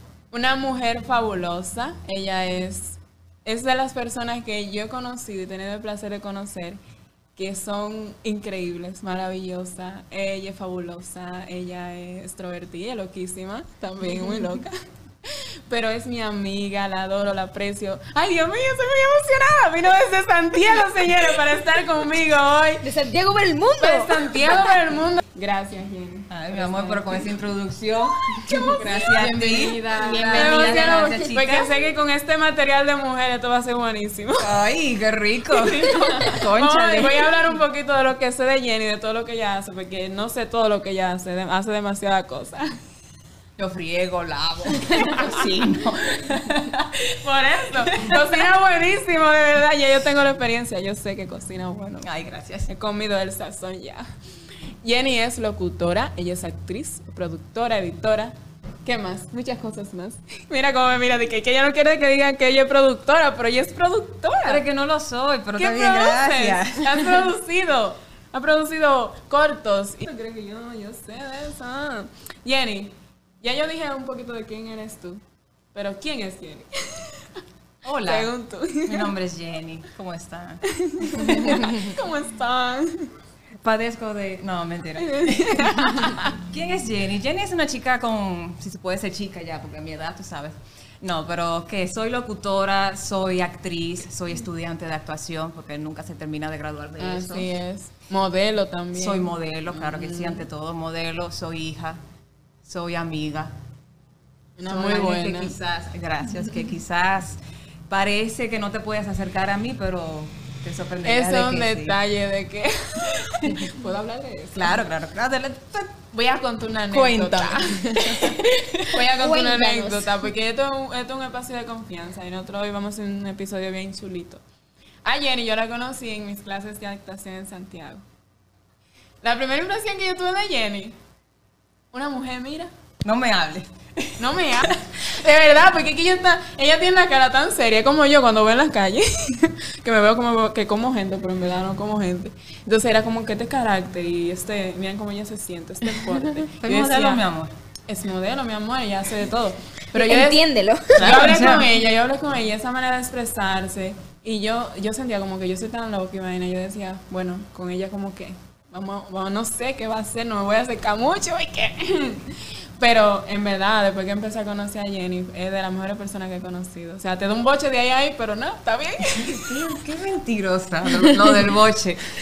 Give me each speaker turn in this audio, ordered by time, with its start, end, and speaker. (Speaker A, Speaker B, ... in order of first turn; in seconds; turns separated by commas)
Speaker A: 0.3-6.8, Speaker A: 7.4-22.9, Speaker B: 22.8-24.6, Speaker A: 23.8-27.3, Speaker C: 26.3-31.7, Speaker B: 28.5-28.8, Speaker A: 28.5-34.5, Speaker B: 29.9-31.3, Speaker C: 34.4-37.4, Speaker A: 35.5-42.7, Speaker C: 43.6-47.1, Speaker A: 44.9-45.4, Speaker A: 47.2-52.0, Speaker C: 47.9-48.3, Speaker C: 52.0-52.7, Speaker A: 52.7-54.1, Speaker A: 54.8-64.6, Speaker C: 64.5-67.3, Speaker A: 65.6-75.2, Speaker A: 75.7-77.3, Speaker C: 77.8-78.3, Speaker A: 78.0-79.1, Speaker C: 78.8-82.0, Speaker A: 80.7-83.1, Speaker C: 83.6-97.5, Speaker A: 85.0-86.3, Speaker A: 97.0-100.5, Speaker C: 98.9-102.0, Speaker C: 102.7-103.5, Speaker A: 104.6-105.5, Speaker C: 104.7-107.4, Speaker C: 107.9-112.0, Speaker A: 111.0-114.8, Speaker C: 114.5-116.0, Speaker A: 116.1-124.4, Speaker C: 116.9-118.9, Speaker B: 119.1-120.1, Speaker A: 125.0-128.0, Speaker A: 129.2-131.0, Speaker A: 131.9-132.7, Speaker C: 133.0-134.7, Speaker A: 134.2-147.2, Speaker C: 146.6-147.5, Speaker A: 147.9-150.4, Speaker B: 149.9-151.2, Speaker A: 151.0-169.5, Speaker C: 151.0-151.7, Speaker C: 169.1-172.0